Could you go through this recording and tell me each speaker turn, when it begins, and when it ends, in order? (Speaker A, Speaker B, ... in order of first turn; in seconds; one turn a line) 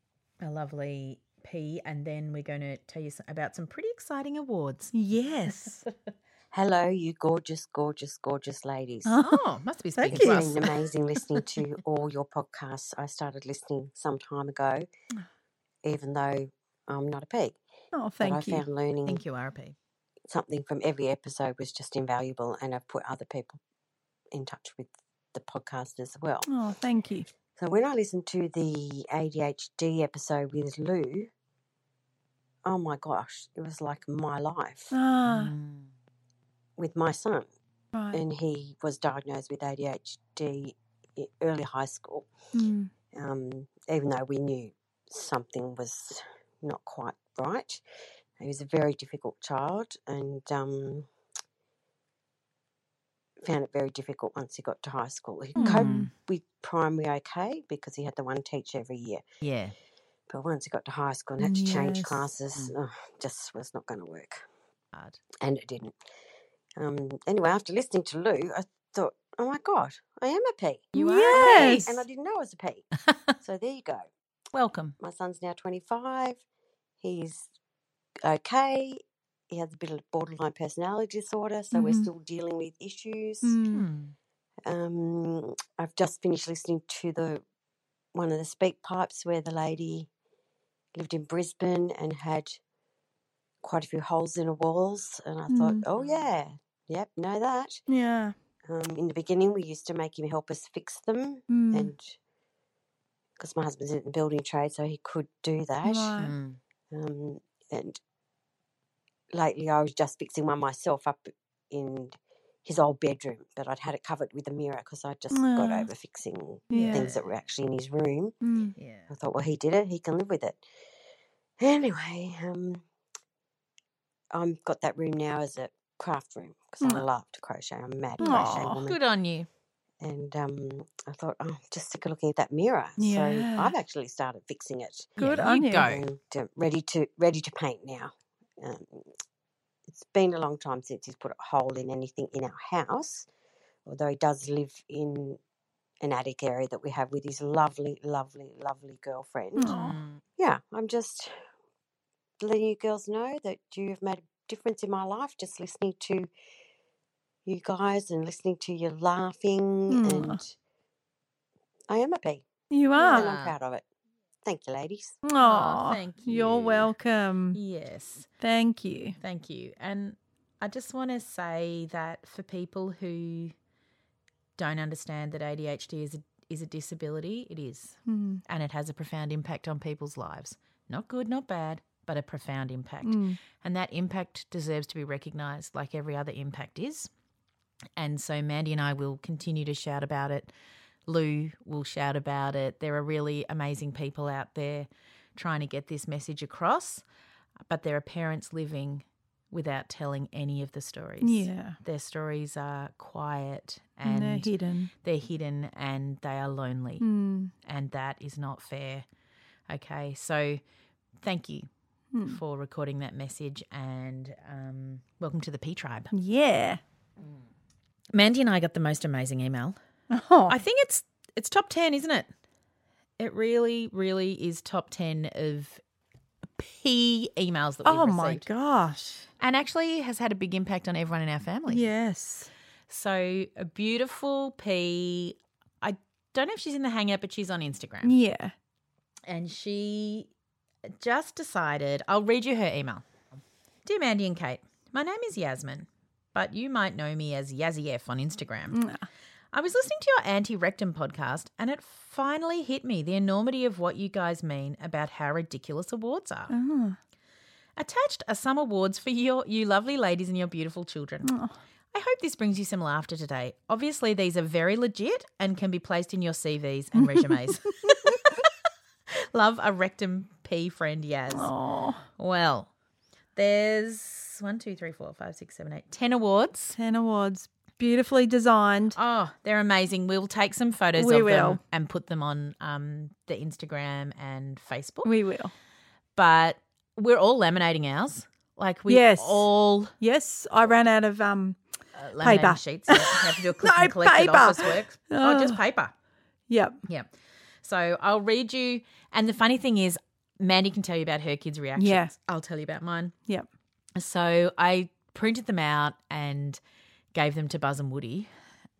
Speaker A: 0.4-4.9
Speaker B: 5.0-5.8
Speaker C: 6.5-9.2
Speaker B: 9.1-9.4
Speaker A: 9.2-10.7
Speaker B: 10.0-10.8
Speaker C: 10.1-14.9
Speaker C: 15.8-17.6
Speaker B: 17.9-18.6
Speaker C: 18.2-19.2
Speaker A: 19.1-19.8
Speaker C: 20.3-23.6
Speaker C: 24.3-26.5
Speaker B: 26.5-27.3
Speaker C: 27.6-31.3
Speaker C: 32.6-35.0
Speaker B: 34.9-35.5
Speaker A: 35.3-35.9
Speaker C: 36.8-37.5
Speaker B: 37.9-38.2
Speaker C: 38.1-42.3
Speaker B: 42.5-42.9
Speaker C: 43.1-47.8
Speaker C: 48.4-51.1
Speaker C: 53.4-59.2
Speaker A: 55.6-56.1
Speaker B: 55.6-56.1
Speaker A: 59.4-59.7
Speaker C: 60.3-64.5
Speaker B: 61.4-62.2
Speaker A: 64.9-65.2
Speaker C: 65.4-66.0
Speaker C: 66.8-72.9
Speaker A: 70.9-72.0
Speaker B: 71.0-72.0
Speaker C: 73.4-74.1
Speaker A: 74.5-75.0
Speaker C: 75.0-76.4
Speaker C: 77.0-77.5
Speaker C: 78.2-83.6
Speaker B: 81.7-82.1
Speaker B: 83.4-83.8
Speaker A: 83.7-84.1
Speaker C: 84.7-87.4
Speaker C: 88.1-90.1
Speaker C: 90.9-92.6
Speaker C: 93.6-97.8
Speaker B: 95.5-95.8
Speaker A: 95.9-96.3
Speaker B: 97.9-98.3
Speaker C: 98.7-102.2
Speaker B: 101.5-101.9
Speaker C: 103.4-106.2
Speaker B: 105.8-106.3
Speaker A: 106.2-106.6
Speaker C: 106.9-108.0
Speaker C: 109.3-118.4
Speaker B: 115.3-115.9
Speaker B: 116.7-117.1
Speaker A: 116.7-117.4
Speaker B: 118.4-118.7
Speaker A: 118.8-119.1
Speaker C: 119.1-120.6
Speaker C: 121.6-122.8
Speaker C: 124.3-129.0
Speaker B: 128.2-128.8
Speaker A: 128.2-129.5
Speaker C: 130.0-135.3
Speaker B: 133.0-133.7
Speaker A: 135.2-136.0
Speaker B: 135.2-135.9
Speaker C: 135.8-139.1
Speaker C: 139.9-143.3
Speaker C: 143.9-145.4
Speaker C: 146.0-149.7
Speaker B: 149.6-150.0
Speaker A: 149.6-150.2
Speaker C: 150.4-151.3
Speaker C: 152.4-156.3
Speaker C: 157.5-160.6
Speaker B: 159.9-160.4
Speaker C: 161.9-163.8
Speaker B: 162.7-163.3
Speaker A: 163.0-163.6
Speaker C: 164.4-165.2
Speaker B: 165.2-167.6
Speaker A: 165.4-166.9
Speaker A: 167.5-168.3
Speaker B: 168.4-169.2
Speaker A: 169.2-173.6
Speaker A: 174.6-187.1
Speaker B: 178.1-178.4
Speaker B: 183.0-183.4
Speaker A: 188.0-190.5
Speaker A: 191.1-197.0
Speaker A: 197.7-204.5
Speaker B: 201.2-201.8
Speaker B: 204.1-204.9
Speaker A: 205.0-207.0
Speaker B: 207.0-207.5
Speaker A: 207.7-209.1
Speaker A: 209.7-210.6
Speaker A: 211.2-211.7
Speaker B: 212.1-212.4
Speaker A: 212.3-216.1
Speaker B: 216.1-216.8
Speaker A: 218.1-219.8
Speaker B: 220.1-220.6
Speaker A: 220.5-222.3
Speaker A: 223.2-225.8
Speaker A: 226.6-228.4
Speaker B: 227.8-229.2
Speaker A: 229.4-231.9
Speaker B: 231.7-232.5
Speaker A: 232.9-238.2
Speaker B: 238.0-238.5
Speaker A: 239.3-240.3
Speaker A: 241.0-243.1
Speaker A: 243.8-248.8
Speaker B: 248.7-249.1
Speaker A: 249.5-256.5
Speaker B: 256.5-257.0
Speaker A: 257.8-261.3
Speaker B: 261.2-261.5
Speaker A: 261.9-268.5
Speaker B: 267.0-268.1
Speaker A: 269.3-271.5
Speaker B: 271.3-272.0
Speaker A: 272.2-272.7
Speaker A: 273.4-276.8
Speaker B: 276.8-279.0
Speaker A: 279.0-285.1
Speaker B: 281.0-281.6
Speaker B: 285.1-285.5
Speaker A: 286.2-289.9
Speaker B: 288.9-289.5
Speaker B: 290.0-291.6
Speaker A: 292.0-295.9
Speaker B: 292.2-295.6
Speaker B: 296.5-296.8
Speaker A: 297.6-303.1
Speaker B: 301.8-302.1
Speaker A: 304.0-306.6
Speaker A: 307.1-308.3